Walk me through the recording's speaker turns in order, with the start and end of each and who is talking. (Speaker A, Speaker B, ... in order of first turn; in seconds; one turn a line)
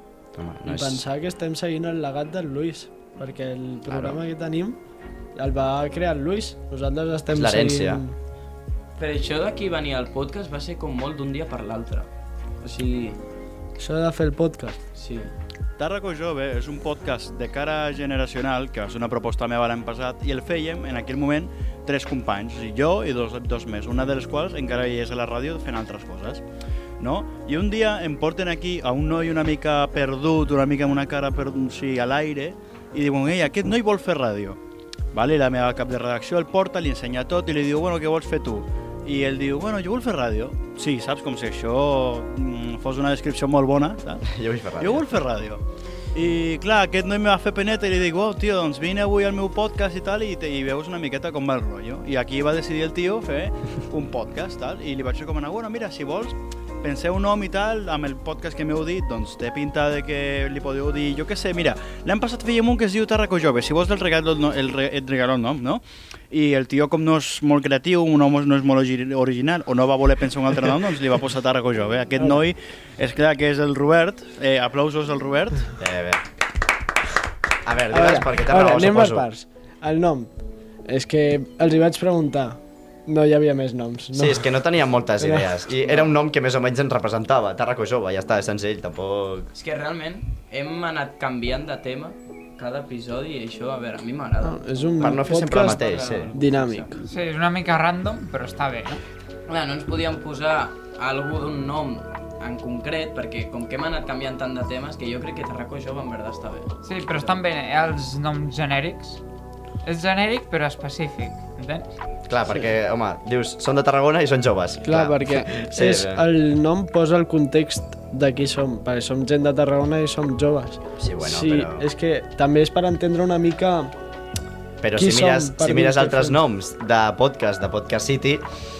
Speaker A: 0.3-1.1
Speaker B: 0.7-4.8
Speaker A: 3.9-4.2
Speaker B: 5.4-8.1
Speaker A: 7.3-8.0
Speaker C: 9.0-12.1
Speaker C: 12.6-13.2
Speaker B: 13.8-14.8
Speaker C: 14.9-15.3
Speaker D: 15.8-26.4
Speaker D: 27.0-34.6
Speaker D: 35.1-44.2
Speaker A: 44.2-45.0
Speaker D: 44.8-45.6
Speaker D: 46.1-75.7
Speaker A: 75.8-76.2
Speaker A: 77.6-79.3
Speaker B: 77.9-80.3
Speaker B: 80.9-84.5
Speaker A: 84.1-89.5
Speaker B: 85.2-85.5
Speaker C: 89.5-94.6
Speaker B: 94.4-97.0
Speaker A: 95.0-96.3
Speaker C: 95.5-97.0
Speaker E: 97.0-99.0
Speaker C: 99.5-107.3
Speaker E: 106.8-109.2
Speaker E: 109.8-111.9
Speaker A: 112.3-116.2
Speaker B: 114.8-123.9
Speaker A: 121.0-121.9
Speaker A: 124.8-128.5
Speaker B: 125.0-126.4